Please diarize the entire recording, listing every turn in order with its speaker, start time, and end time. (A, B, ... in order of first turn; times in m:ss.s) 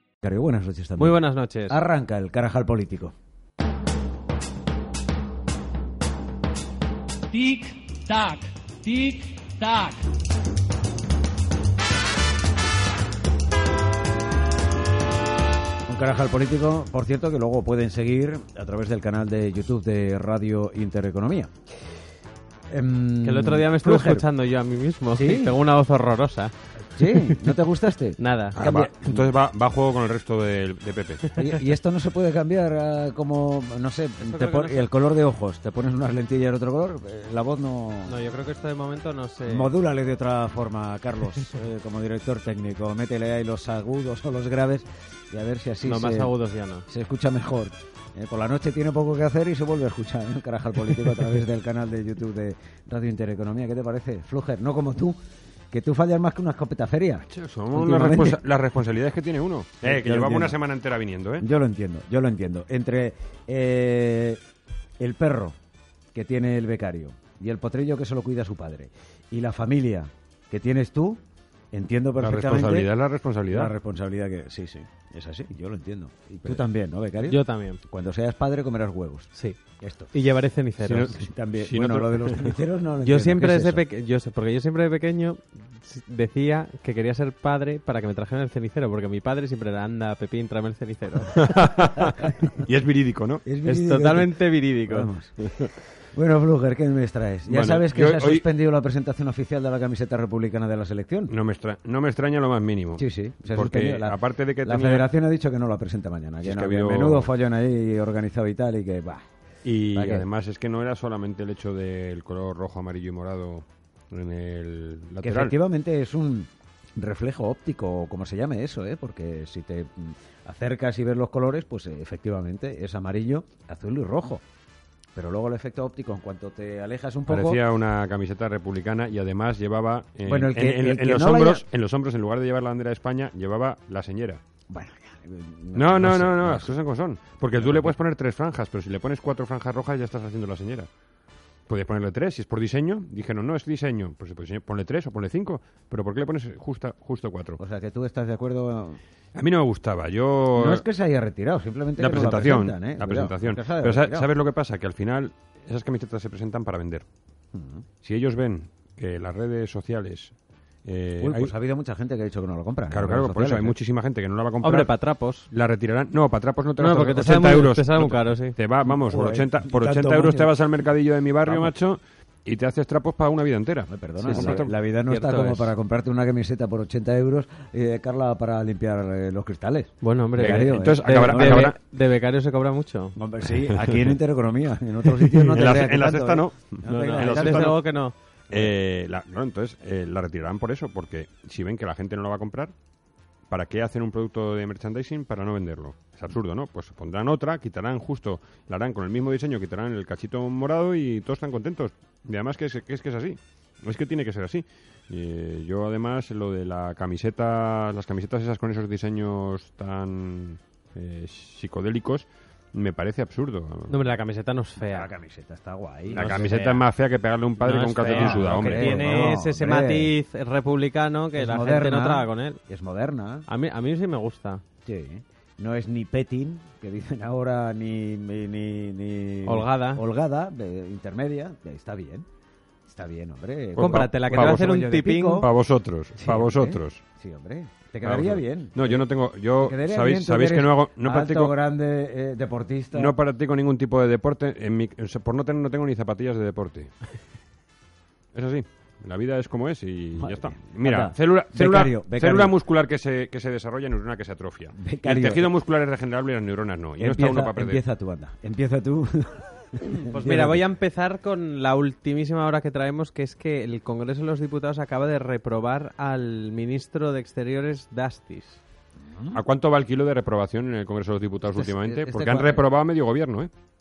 0:00.2-0:03.1 A
0:01.0-0:01.8 B
0:07.3-0:08.4 C
0:08.9-0:09.9 C
0:15.9-0:21.5 A
0:22.7-0:24.3 A
0:23.2-0:26.5 B
0:25.1-0:25.6 A
0:26.9-0:29.2 A
0:28.2-0:28.6 B
0:28.5-0:31.6 D
0:31.4-0:38.2 A
0:34.2-0:34.9 B
0:38.1-0:39.7 B
0:39.4-0:46.3 A
0:45.8-0:46.8 B
0:46.9-0:55.2 A
0:55.7-0:58.4 A
0:57.3-1:01.4 D
0:59.8-1:00.6 A
1:01.4-1:04.4 A
1:05.0-1:05.5 A
1:06.1-1:11.2 A
1:11.7-1:12.9 A
1:12.2-1:13.7 D
1:13.5-1:20.2 A
1:17.3-1:17.8 B
1:20.1-1:21.1 B
1:20.8-1:22.6 D
1:20.8-1:23.8 A
1:23.0-1:31.4 B
1:31.3-1:33.4 D
1:33.4-1:41.3 A
1:33.6-1:35.1 B
1:37.5-1:38.4 D
1:41.3-1:45.1 D
1:43.0-1:49.2 A
1:46.4-1:47.3 D
1:49.6-1:55.5 D
1:49.9-1:50.2 A
1:55.2-2:04.4 A
2:05.1-2:07.6 A
2:07.3-2:14.4 D
2:10.2-2:11.6 A
2:14.7-2:16.7 A
2:15.7-2:20.9 D
2:17.6-2:17.9 A
2:21.7-2:27.6 D
2:27.6-2:29.0 A
2:29.3-2:30.8 D
2:30.5-2:34.3 A
2:32.0-2:37.0 D
2:37.5-2:37.8 A
2:38.0-2:40.3 D
2:40.8-2:41.5 D
2:41.2-2:43.8 A
2:42.9-2:44.9 D
2:44.6-2:45.5 B
2:45.5-2:55.7 D
2:46.8-2:48.6 B
2:48.8-2:50.5 A
2:51.4-2:51.7 A
2:53.9-3:01.7 A
2:54.2-2:54.6 B
3:00.0-3:03.1 B
3:00.4-3:01.8 D
3:03.1-3:07.8 A
3:03.6-3:04.2 D
3:05.1-3:07.8 D
3:06.9-3:08.1 B
3:08.5-3:12.7 D
3:13.5-3:34.0 D
3:33.9-3:35.1 B
3:34.8-3:36.5 A
3:36.1-3:39.4 D
3:36.2-3:36.8 B
3:37.6-3:42.6 B
3:38.0-3:40.1 A
3:41.3-3:43.5 A
3:43.5-3:44.6 B
3:44.8-3:52.2 A
3:49.4-3:50.0 B
3:52.9-3:55.5 A
3:53.8-3:57.0 D
3:53.8-3:55.4 B
3:56.2-3:59.0 A
3:58.0-4:01.5 D
3:59.6-4:03.1 A
4:02.9-4:06.9 D
4:08.3-4:17.8 D
4:10.2-4:12.6 A
4:14.8-4:15.5 A
4:17.0-4:20.6 A
4:20.0-4:28.6 B
4:29.1-4:29.4 A
4:29.3-4:33.5 D
4:31.5-4:32.6 A